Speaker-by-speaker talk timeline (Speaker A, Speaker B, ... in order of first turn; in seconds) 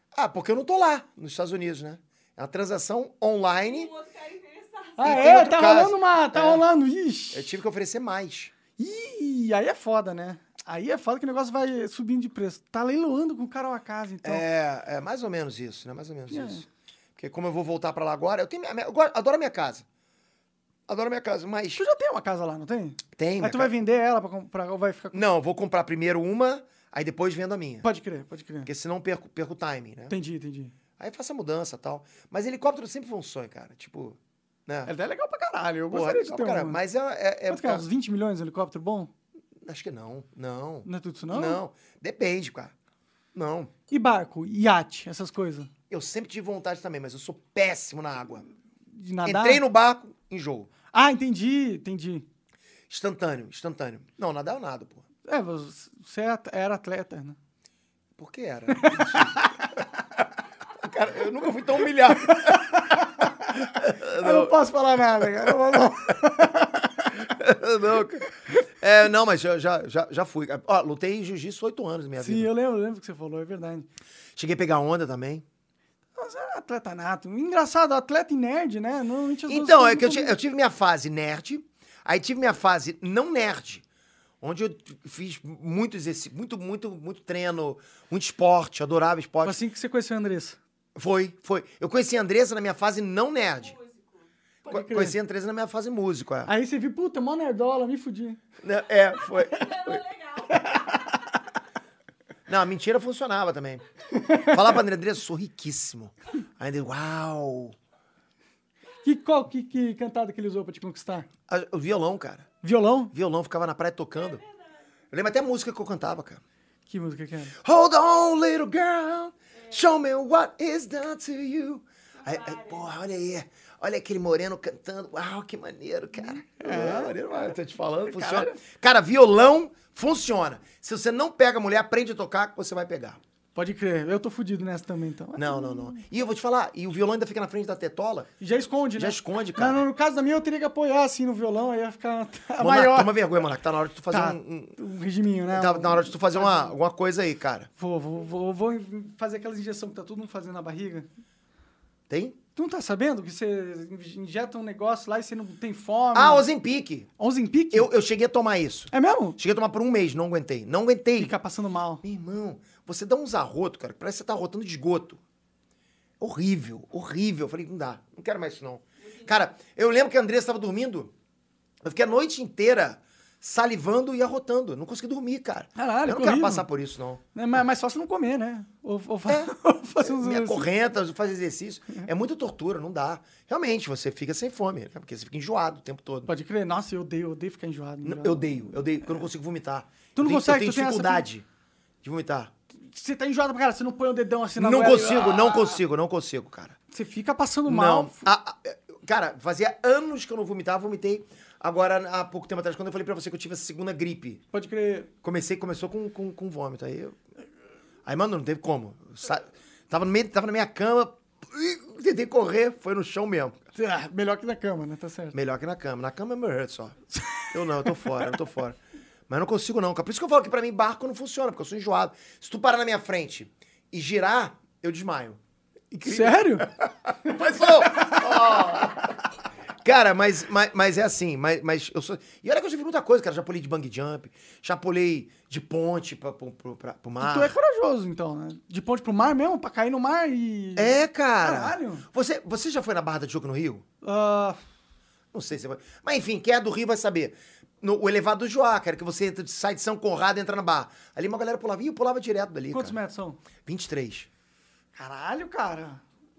Speaker A: 0.1-3.9, 5.0-6.7, 7.3-8.5, 14.2-19.9, 20.9-21.8, 23.1-23.7, 25.1-27.9, 28.6-30.1, 31.0-34.9, 35.9-37.9, 39.6-42.7, 43.3-43.7, 45.9-48.4, 49.2-50.7, 52.9-55.0, 58.2-59.4, 60.8-62.8, 63.7-64.6, 67.2-72.5, 74.4-75.4, 79.5-83.8, 84.4-89.6, 90.9-93.8, 94.7-96.5, 98.6-100.0, 102.5-103.8, 104.4-107.7, 111.5-112.5, 113.1-114.4, 115.1-116.4, 117.6-133.2, 135.4-138.3, 138.9-139.8, 142.6-144.8, 145.5-147.7, 152.1-152.4, 156.1-157.1, 157.7-161.3, 162.0-165.2, 166.2-171.1, 171.8-177.2, 179.3-186.3, 188.0-191.4, 192.0-192.5, 194.6-196.8, 197.7-204.4, 205.2-207.2, 208.1-213.6, 215.3-217.0, 217.5-218.8, 219.3-225.4, 225.9-229.2, 229.8-237.6, 240.8-243.8, 245.3-253.0, 253.7-254.3
Speaker B: 3.6-5.3, 93.6-94.3, 99.4-100.8, 122.2-122.8
Speaker C: 5.0-7.5, 8.8-14.4, 16.3-16.6, 21.7-25.2, 27.8-28.7, 30.1-30.7, 34.9-36.8, 37.5-39.1, 40.9-41.6, 43.9-45.7, 48.9-49.6, 50.9-52.3, 55.3-57.4, 58.7-59.6, 62.3-63.3, 64.1-67.2, 72.2-73.9, 76.2-80.4, 89.4-90.6, 94.7-95.2, 96.5-98.4, 100.6-101.0, 104.2-104.6, 109.0-111.3, 112.6-113.1, 116.9-117.6, 126.5-127.2, 128.1-128.6, 133.6-135.9, 138.4-143.2, 144.1-146.7, 147.8-151.1, 152.6-156.5, 157.2-157.9, 158.9-159.4, 161.2-162.0, 175.8-176.7, 177.3-180.7, 186.3-188.5, 190.2-191.3, 192.8-195.8, 196.9-198.3, 204.5-205.1, 213.7-215.4, 217.2-218.2, 226.0-226.7, 227.6-228.3, 237.2-242.1, 244.0-244.6, 252.7-253.4, 254.9-256.0